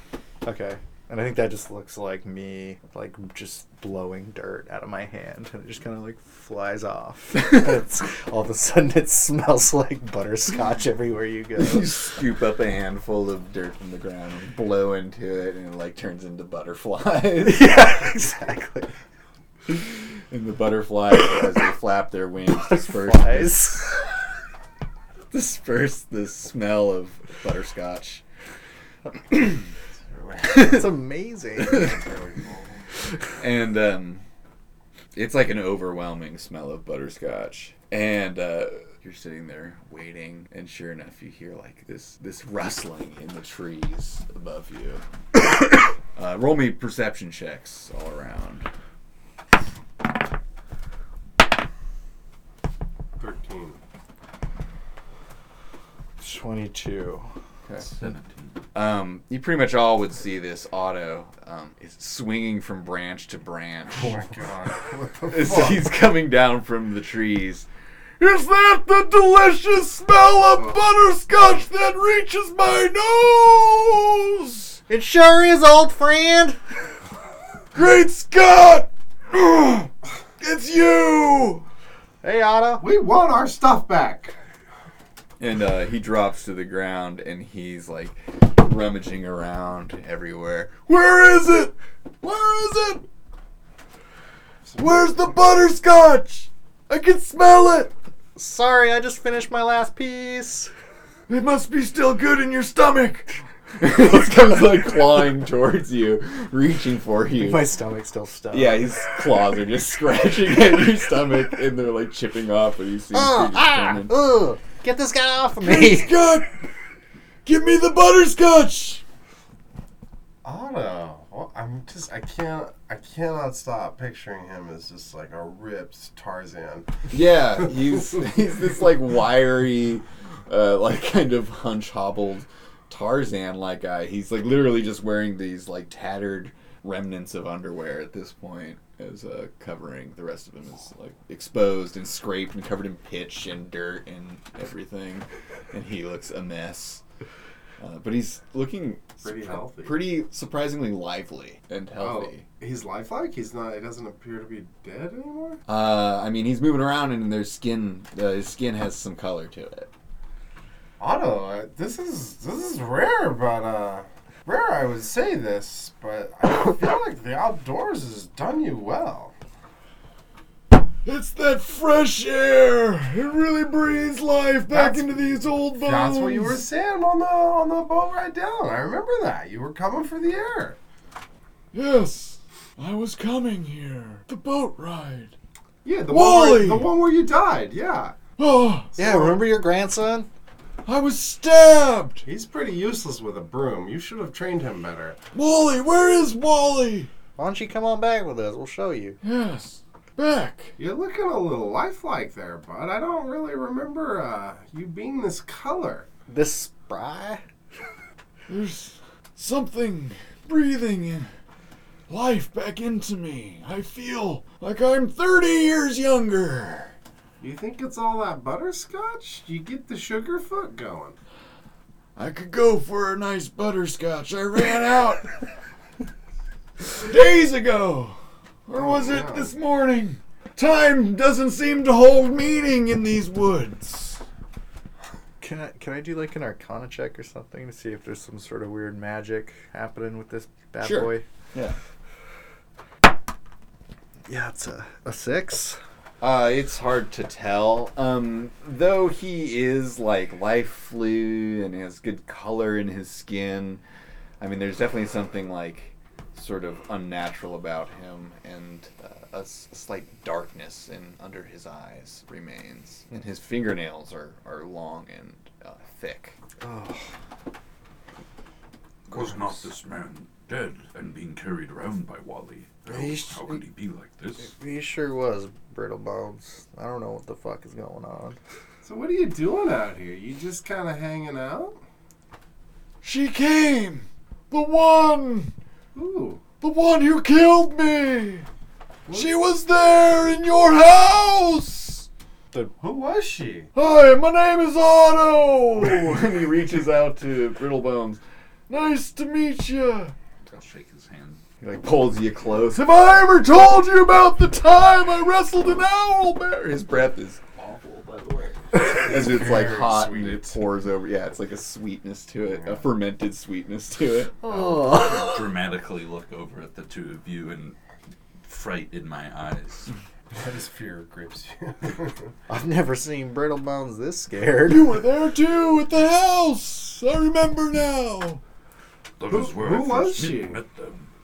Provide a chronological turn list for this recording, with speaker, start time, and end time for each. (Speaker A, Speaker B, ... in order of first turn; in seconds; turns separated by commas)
Speaker A: 0.4-11.9, Speaker B: 11.6-17.8, Speaker A: 17.4-18.9, Speaker B: 19.7-23.9, Speaker A: 22.5-24.0, Speaker B: 25.3-28.2, Speaker C: 30.0-30.7, Speaker B: 30.5-30.8, Speaker A: 30.5-31.9, Speaker C: 31.6-32.8, Speaker B: 33.4-34.2, Speaker B: 35.1-48.7, Speaker C: 53.2-53.8, Speaker A: 56.2-57.3, Speaker D: 57.8-58.6, Speaker B: 58.7-64.2, Speaker C: 63.9-65.8, Speaker B: 65.3-67.7, Speaker B: 68.2-74.8, Speaker A: 74.9-76.6, Speaker B: 77.7-81.6, Speaker A: 82.2-82.8, Speaker C: 82.8-84.3, Speaker B: 85.4-93.0, Speaker C: 94.7-95.1, Speaker B: 94.8-97.9, Speaker A: 98.3-100.7, Speaker B: 101.3-107.6, Speaker A: 107.4-108.9, Speaker B: 108.5-114.3, Speaker A: 113.1-116.1, Speaker B: 115.6-116.5, Speaker B: 117.5-119.0, Speaker C: 120.4-127.0, Speaker B: 127.1-147.0, Speaker C: 127.7-128.2, Speaker B: 147.8-152.4, Speaker C: 149.2-150.0, Speaker C: 152.0-155.6, Speaker B: 155.7-159.9, Speaker C: 161.0-169.3, Speaker B: 171.0-176.6, Speaker C: 174.7-180.8, Speaker B: 181.7-185.3, Speaker C: 185.8-188.2, Speaker B: 186.1-186.9, Speaker B: 188.4-188.9, Speaker C: 188.9-189.4, Speaker A: 189.0-190.3, Speaker B: 190.8-192.2, Speaker C: 192.2-195.2, Speaker B: 195.3-197.1, Speaker A: 197.4-199.2, Speaker B: 199.2-200.7, Speaker C: 200.8-206.1, Speaker A: 206.3-207.4, Speaker B: 208.5-211.3, Speaker B: 212.1-216.9, Speaker C: 217.4-221.2, Speaker B: 222.2-225.3, Speaker B: 226.8-234.2, Speaker C: 228.7-229.5, Speaker A: 235.4-241.2, Speaker B: 240.8-241.8, Speaker A: 244.3-245.8, Speaker B: 246.2-253.8, Speaker B: 254.4-266.4, Speaker A: 266.6-267.1, Speaker D: 269.1-274.5, Speaker A: 272.9-273.6, Speaker A: 274.4-278.4, Speaker C: 278.8-281.8, Speaker B: 283.0-285.5, Speaker C: 285.9-286.4, Speaker B: 286.6-288.5, Speaker C: 289.1-289.3, Speaker B: 289.1-292.1, Speaker C: 292.8-293.7, Speaker B: 293.7-300.1, Speaker D: 300.5-301.4, Speaker B: 301.6-314.5, Speaker C: 308.8-310.6, Speaker C: 312.4-312.8, Speaker A: 314.4-315.4, Speaker D: 314.5-317.8, Speaker D: 318.4-319.9, Speaker C: 320.3-322.3, Speaker A: 322.5-324.9, Speaker B: 324.7-328.4, Speaker D: 329.2-331.1, Speaker C: 329.3-330.6